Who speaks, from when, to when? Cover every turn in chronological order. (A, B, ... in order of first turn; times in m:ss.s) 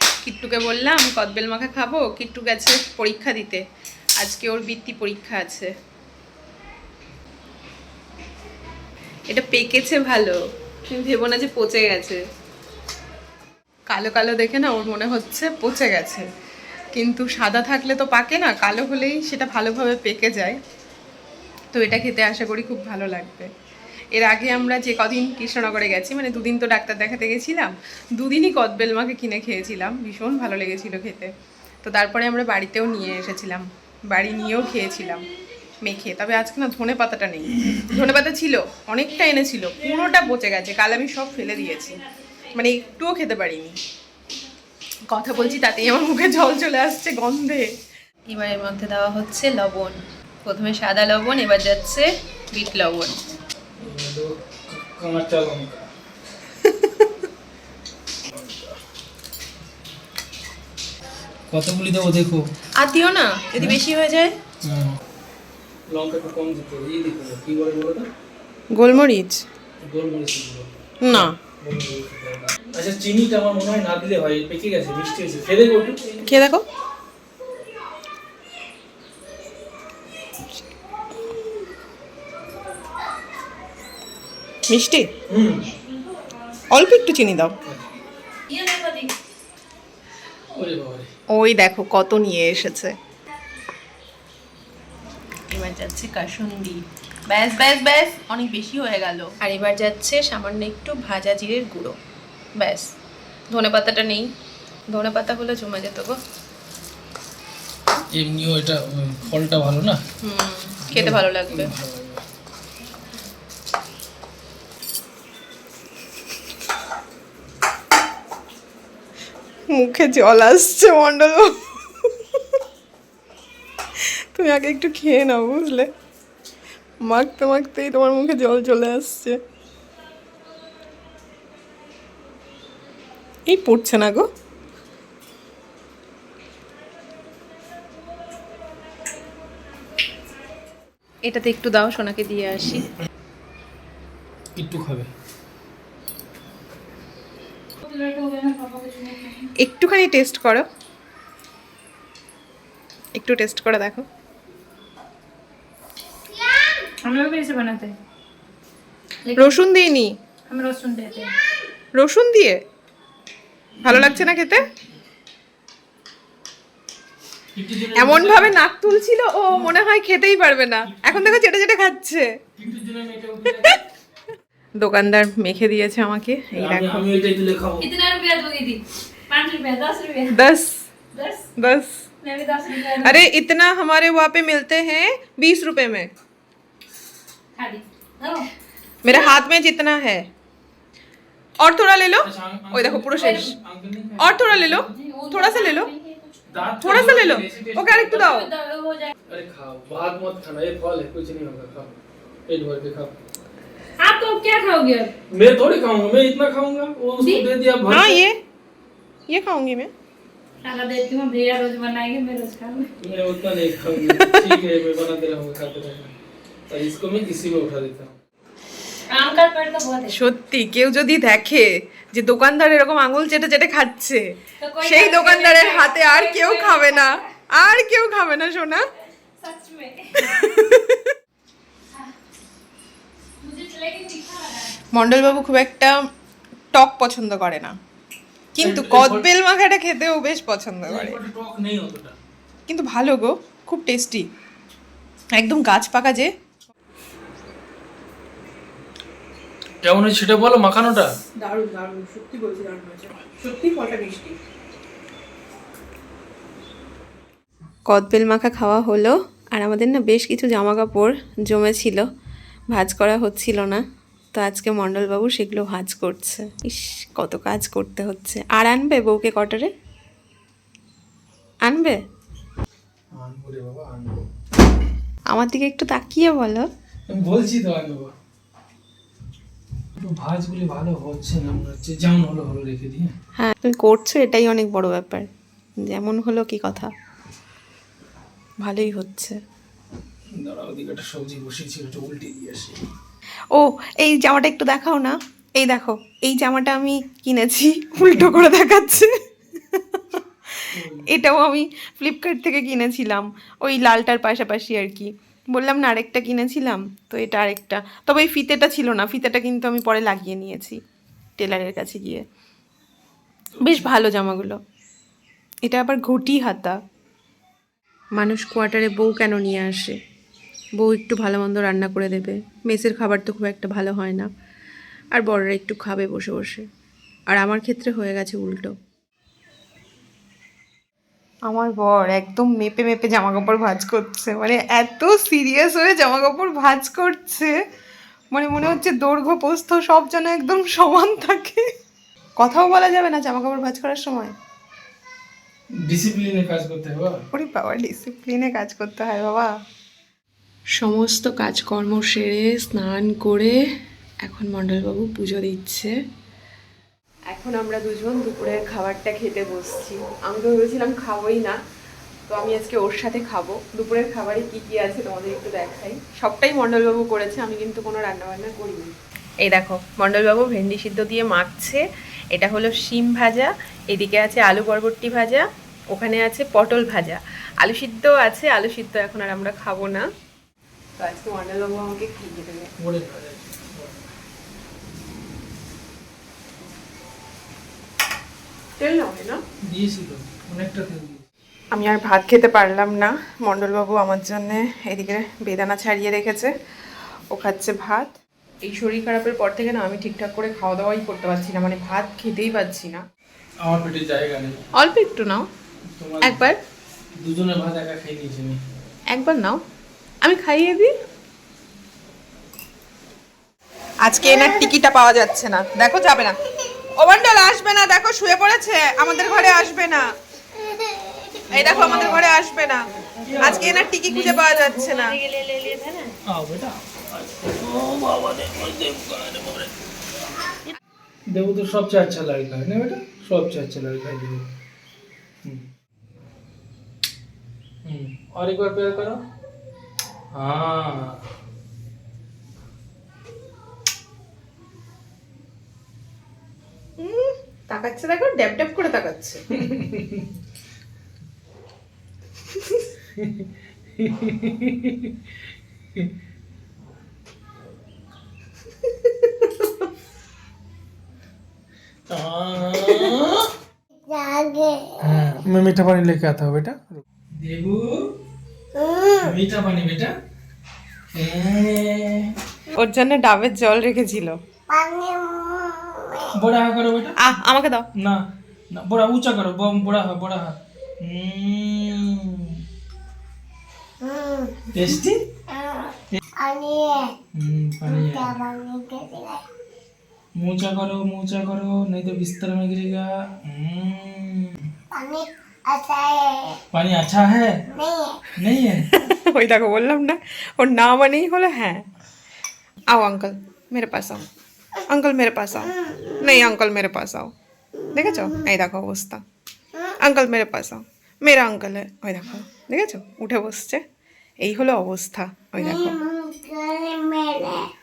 0:00.2-0:03.6 A
0:04.2-0:05.7 A
0:09.3-0:10.4 A
0:10.9-0:12.2 A
0:13.9-0:16.3 A
0:16.9-0:20.6 A
0:21.7-0:23.5 A
0:24.1-0:31.3 A
0:31.8-0:35.3 A
0:35.8-0:43.8 A
0:45.1-0:47.7 A
0:48.3-0:53.2 A
0:53.8-0:55.9 B
0:56.7-0:57.0 A
0:58.3-0:58.8 B
1:01.5-1:02.5 B
1:02.8-1:04.3 A
1:04.6-1:05.0 B
1:05.9-1:08.1 B
1:08.8-1:09.4 A
1:09.8-1:16.2 B
1:11.0-1:11.4 A
1:16.2-1:16.6 A
1:24.7-1:25.1 A
1:25.3-1:25.7 B
1:26.7-1:27.6 A
1:27.6-1:27.9 B
1:28.5-1:29.1 C
1:30.5-1:31.1 B
1:31.3-1:33.0 A
1:35.5-1:42.0 A
1:42.6-1:42.9 A
1:43.5-1:44.3 A
1:44.9-1:46.2 A
1:48.1-1:50.0 B
1:50.2-1:51.7 A
1:50.8-1:52.2 B
1:59.7-2:02.1 A
2:04.0-2:05.9 A
2:07.0-2:09.4 A
2:13.5-2:14.2 A
2:21.3-2:22.9 A
2:24.6-2:25.1 B
2:27.8-2:29.5 C
2:29.6-2:30.6 A
2:33.2-2:34.0 A
2:36.3-2:36.9 D
2:37.0-2:37.9 C
2:39.4-2:40.1 A
2:40.5-2:41.3 C
2:42.0-2:42.6 A
2:43.8-2:44.3 B
2:43.8-2:44.7 A
2:47.5-2:48.6 B
2:48.0-2:52.3 A
2:49.5-2:49.8 B
2:50.9-2:51.4 B
2:52.6-2:53.8 B
2:54.8-2:57.0 A
2:56.6-2:57.9 B
2:57.8-3:00.3 C
3:00.3-3:00.9 A
3:01.1-3:01.5 C
3:01.6-3:02.1 A
3:02.2-3:03.2 C
3:03.0-3:06.1 A
3:07.6-3:08.5 C
3:09.0-3:10.2 A
3:09.1-3:09.4 C
3:11.6-3:13.5 A
3:12.2-3:14.9 B
3:13.2-3:13.5 C
3:14.2-3:15.9 A
3:14.9-3:17.2 C
3:16.5-3:18.4 B
3:16.8-3:18.5 A
3:18.1-3:19.1 C
3:19.3-3:22.0 B
3:22.5-3:23.2 B
3:24.0-3:25.1 C
3:25.3-3:28.2 B
3:27.2-3:27.5 C
3:27.9-3:28.4 A
3:29.3-3:29.9 A
3:30.6-3:33.0 C
3:33.0-3:36.1 B
3:34.1-3:34.5 A
3:36.7-3:38.2 B
3:39.1-3:40.1 C
3:40.1-3:44.2 A
3:44.6-3:47.2 C
3:44.8-3:48.9 A
3:49.4-3:50.6 C
3:50.2-3:51.1 A
3:53.4-3:54.8 C
3:54.9-3:56.0 A
3:56.7-3:57.8 A
3:58.6-4:01.2 A
3:58.6-3:59.3 B
4:00.8-4:02.2 B
4:02.7-4:04.2 A
4:05.4-4:06.3 A
4:09.8-4:11.1 B
4:11.4-4:14.4 A
4:17.9-4:22.0 A
4:22.7-4:23.8 A
4:24.3-4:29.7 A
4:31.7-4:32.0 A
4:33.1-4:34.2 B
4:35.3-4:36.7 A
4:37.1-4:38.1 B
4:40.0-4:43.1 B
4:43.4-4:45.3 A
4:45.8-4:46.9 A
4:48.6-4:49.4 A
4:50.3-4:52.8 B
4:53.5-4:59.1 A
4:59.7-5:10.8 A
5:00.7-5:01.1 B
5:11.4-5:12.2 A
5:13.6-5:14.6 A
5:15.6-5:16.8 A
5:18.2-5:20.0 A
5:20.8-5:24.3 A
5:25.1-5:26.6 A
5:27.3-5:28.7 A
5:31.5-5:37.5 A
5:38.3-5:41.6 A
5:42.4-5:44.3 A
5:45.8-5:47.2 B
5:47.3-5:49.5 A
5:50.8-5:53.6 A
5:54.2-5:55.9 A
5:57.3-6:01.6 A
6:02.3-6:08.9 A
6:09.4-6:20.1 A
6:21.0-6:22.7 A
6:22.8-6:24.1 B
6:28.8-6:29.4 A
6:29.6-6:31.2 B
6:31.7-6:36.5 A
6:37.3-6:43.0 A
6:43.6-6:44.6 B
6:44.8-6:45.4 A
6:45.9-6:46.4 B
6:46.2-6:46.6 A
6:47.2-6:48.6 B
6:49.1-6:49.6 A
6:50.2-6:50.9 A
6:54.0-6:56.4 A
6:54.2-6:54.7 D
6:57.0-7:00.1 A
7:00.6-7:01.5 D
7:01.5-7:02.2 B
7:01.5-7:02.9 A
7:03.1-7:03.9 B
7:03.4-7:05.1 A
7:04.0-7:06.1 C
7:06.2-7:09.7 B
7:11.3-7:14.5 B
7:17.8-7:19.2 B
7:20.3-7:21.2 B
7:27.0-7:29.4 A
7:29.5-7:30.4 B
7:33.1-7:35.3 B
7:39.0-7:39.5 A
7:42.1-7:43.5 B
7:43.9-7:45.0 D
7:45.0-7:48.1 B
7:48.7-7:49.3 D
7:49.2-7:50.1 B
7:51.1-7:52.4 B
7:52.8-7:54.4 A
7:54.7-7:56.3 D
7:56.3-7:57.2 B
7:57.2-7:57.9 A
7:58.0-8:02.6 B
8:04.0-8:04.9 D
8:04.7-8:05.2 B
8:05.5-8:07.2 D
8:07.3-8:08.4 B
8:07.8-8:09.4 D
8:10.4-8:14.7 B
8:14.9-8:16.6 D
8:16.7-8:17.6 B
8:17.7-8:18.2 D
8:18.4-8:18.9 B
8:18.9-8:21.8 A
8:22.9-8:24.3 A
8:24.9-8:27.3 A
8:27.9-8:29.2 A
8:30.0-8:33.8 A
8:34.4-8:36.0 A
8:35.6-8:37.7 D